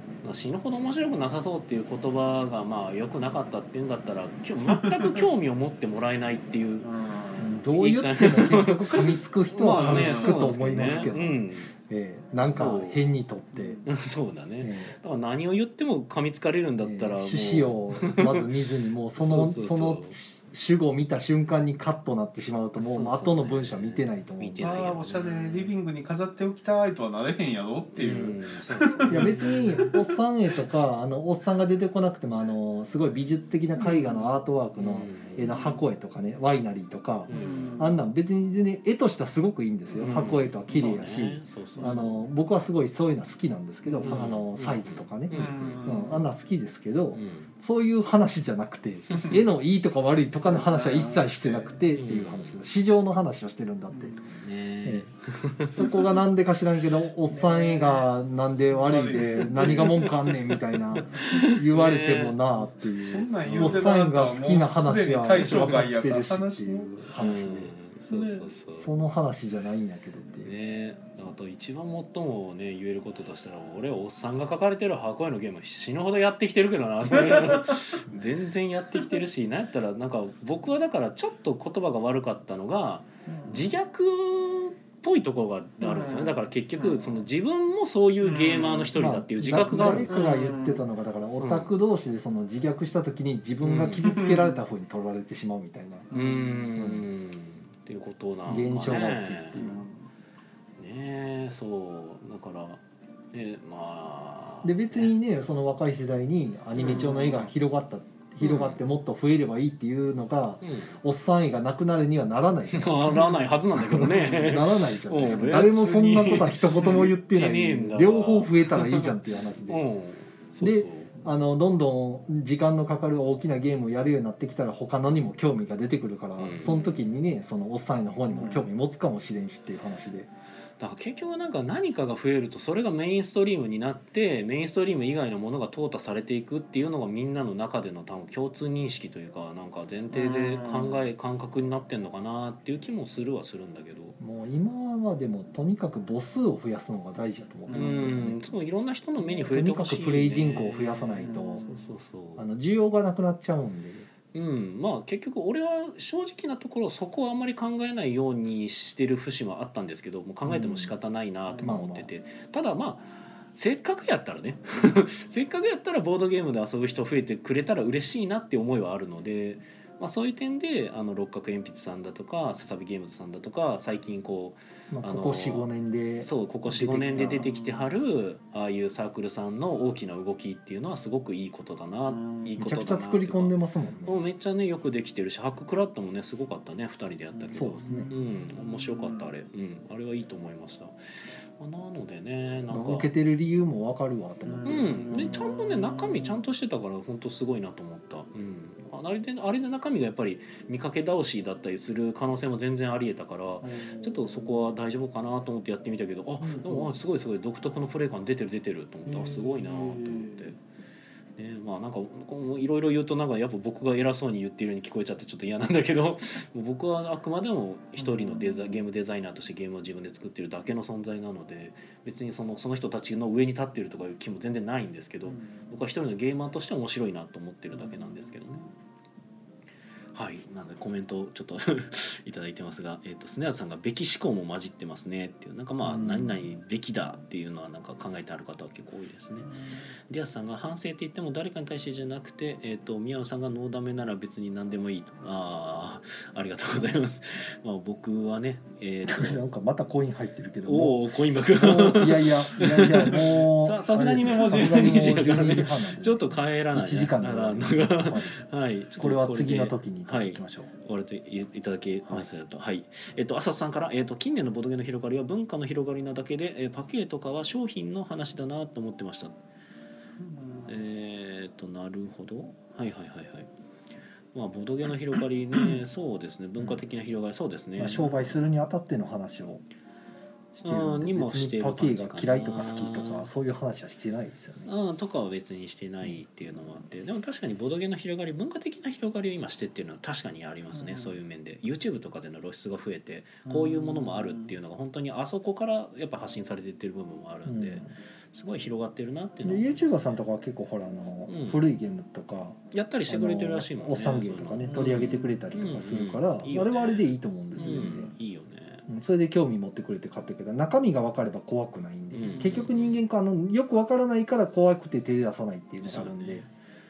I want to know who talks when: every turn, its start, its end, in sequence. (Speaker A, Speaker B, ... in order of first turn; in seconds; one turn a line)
Speaker A: 0.2-6.9
Speaker B: 4.7-5.2
Speaker B: 6.8-7.6
Speaker C: 7.4-13.8
Speaker A: 7.7-11.7
Speaker B: 9.7-11.1
Speaker A: 12.4-13.0
Speaker B: 13.5-13.8
Speaker A: 13.8-18.4
Speaker C: 14.6-14.9
Speaker C: 16.8-24.9
Speaker A: 19.1-20.2
Speaker A: 22.8-25.7
Speaker B: 24.6-30.1
Speaker A: 28.0-29.8
Speaker C: 29.1-54.1
Speaker B: 33.8-34.3
Speaker A: 34.8-35.6
Speaker B: 35.5-35.8
Speaker A: 37.3-37.8
Speaker B: 37.3-38.0
Speaker A: 39.9-42.2
Speaker B: 43.8-44.2
Speaker A: 44.0-46.1
Speaker B: 45.3-46.3
Speaker A: 47.1-47.5
Speaker B: 49.1-49.4
Speaker B: 50.4-51.8
Speaker A: 51.9-52.6
Speaker B: 53.9-54.4
Speaker A: 54.4-55.8
Speaker C: 54.8-55.1
Speaker C: 55.7-67.7
Speaker B: 55.8-56.1
Speaker B: 57.3-58.1
Speaker B: 58.7-60.1
Speaker B: 60.9-61.3
Speaker A: 61.1-62.4
Speaker B: 63.0-67.1
Speaker A: 63.4-63.9
Speaker A: 67.1-68.9
Speaker B: 68.1-68.5
Speaker C: 68.7-70.5
Speaker A: 70.4-90.2
Speaker B: 77.2-77.6
Speaker B: 83.2-83.7
Speaker B: 85.8-87.2
Speaker B: 88.2-88.9
Speaker C: 89.0-96.1
Speaker B: 89.8-90.8
Speaker A: 91.4-91.7
Speaker A: 93.6-94.2
Speaker B: 94.0-94.6
Speaker B: 96.1-96.7
Speaker A: 96.1-99.8
Speaker C: 96.8-97.0
Speaker C: 98.5-99.8
Speaker B: 99.5-100.0
Speaker A: 100.8-102.8
Speaker A: 103.3-105.1
Speaker C: 104.6-119.8
Speaker B: 106.8-107.5
Speaker A: 106.8-107.2
Speaker A: 108.4-108.8
Speaker A: 110.6-111.0
Speaker A: 112.7-119.2
Speaker A: 119.7-121.1
Speaker C: 120.6-130.3
Speaker A: 126.4-127.0
Speaker B: 128.3-128.7
Speaker A: 130.8-144.2
Speaker B: 140.1-141.0
Speaker C: 144.2-148.4
Speaker B: 147.7-148.1
Speaker A: 147.7-152.4
Speaker C: 149.5-151.7
Speaker B: 151.2-151.8
Speaker C: 152.4-154.1
Speaker A: 154.3-175.7
Speaker C: 160.4-160.9
Speaker C: 161.6-162.1
Speaker C: 174.9-177.5
Speaker A: 176.2-183.5
Speaker B: 177.1-177.9
Speaker B: 182.1-182.5
Speaker C: 182.6-184.2
Speaker A: 184.1-193.1
Speaker B: 187.3-189.3
Speaker C: 187.5-188.1
Speaker C: 192.7-195.4
Speaker B: 194.4-196.4
Speaker A: 194.6-210.6
Speaker B: 203.6-204.7
Speaker B: 206.4-206.9
Speaker B: 209.1-210.5
Speaker A: 211.3-228.7
Speaker B: 218.0-218.8
Speaker B: 225.2-225.7
Speaker B: 227.8-228.3
Speaker A: 230.1-239.5
Speaker C: 235.8-236.4
Speaker B: 239.5-239.9
Speaker A: 240.1-249.4
Speaker C: 249.1-258.4
Speaker A: 250.7-269.4
Speaker B: 254.2-255.1
Speaker C: 259.0-260.7
Speaker B: 270.2-270.7
Speaker A: 270.7-273.5
Speaker A: 274.3-278.1
Speaker C: 277.8-279.6
Speaker C: 280.6-284.7
Speaker A: 280.6-283.2
Speaker A: 284.6-300.2
Speaker B: 290.7-291.2
Speaker B: 293.4-294.5
Speaker C: 297.4-297.9
Speaker C: 299.4-308.1
Speaker A: 301.3-301.6
Speaker A: 302.7-308.9
Speaker B: 304.6-305.2
Speaker C: 308.9-316.4
Speaker A: 312.1-313.0
Speaker A: 315.8-316.5